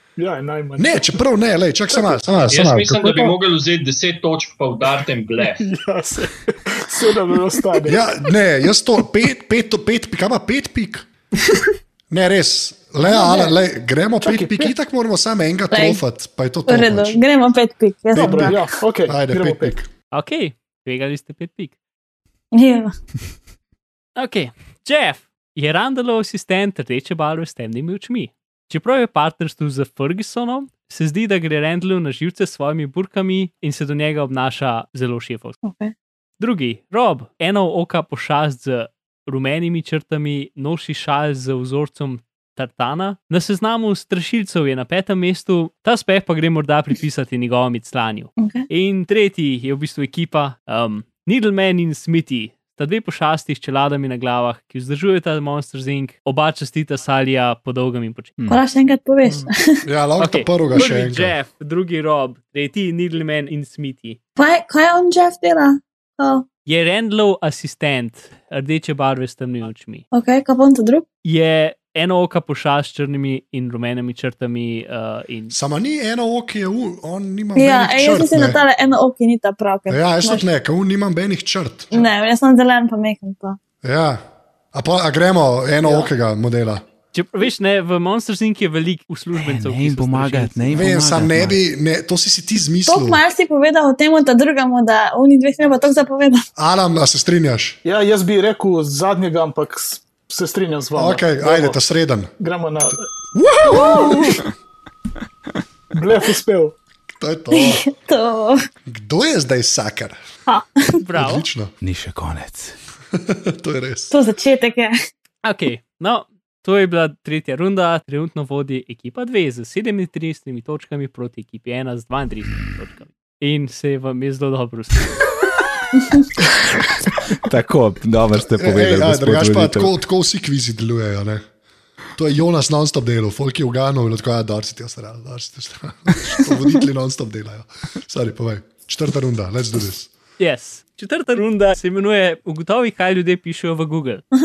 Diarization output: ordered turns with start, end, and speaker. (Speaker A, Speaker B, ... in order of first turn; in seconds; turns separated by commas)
Speaker A: 0.2-1.2, Speaker B: 0.8-3.4, Speaker A: 1.9-2.2, Speaker C: 2.5-5.7, Speaker A: 5.4-8.1, Speaker B: 7.8-11.1, Speaker B: 12.1-17.2, Speaker A: 13.2-13.5, Speaker A: 14.2-14.7, Speaker D: 15.7-16.0, Speaker D: 16.7-18.6, Speaker A: 18.1-19.8, Speaker B: 18.1-19.9, Speaker E: 20.1-21.7, Speaker D: 22.5-22.9, Speaker E: 24.2-35.6, Speaker D: 35.6-35.9, Speaker E: 36.4-58.3, Speaker D: 48.4-48.7, Speaker D: 58.5-59.9, Speaker B: 59.9-61.3, Speaker E: 60.2-64.2, Speaker D: 64.4-66.5, Speaker E: 66.7-70.0, Speaker D: 70.1-71.0, Speaker E: 71.2-75.5, Speaker B: 75.5-78.6, Speaker D: 77.6-80.5, Speaker B: 79.9-81.9, Speaker D: 81.9-83.6, Speaker B: 83.8-84.2, Speaker B: 84.7-86.8, Speaker A: 85.8-86.1, Speaker E: 87.1-90.8, Speaker F: 89.4-91.6, Speaker B: 90.8-93.2, Speaker D: 92.9-96.5, Speaker B: 96.6-97.8, Speaker A: 97.8-101.8, Speaker B: 101.0-102.3, Speaker A: 102.4-103.1, Speaker B: 103.3-104.4, Speaker D: 103.7-104.3, Speaker A: 105.9-106.8, Speaker B: 107.2-107.9, Speaker D: 107.5-108.6, Speaker B: 108.9-110.2, Speaker E: 111.0-111.5, Speaker B: 111.1-111.7, Speaker F: 111.8-112.8, Speaker B: 113.1-114.1, Speaker D: 114.1-115.0, Speaker E: 115.4-125.1, Speaker F: 127.4-129.9, Speaker B: 128.3-131.4, Speaker B: 132.2-140.1, Speaker E: 140.4-144.2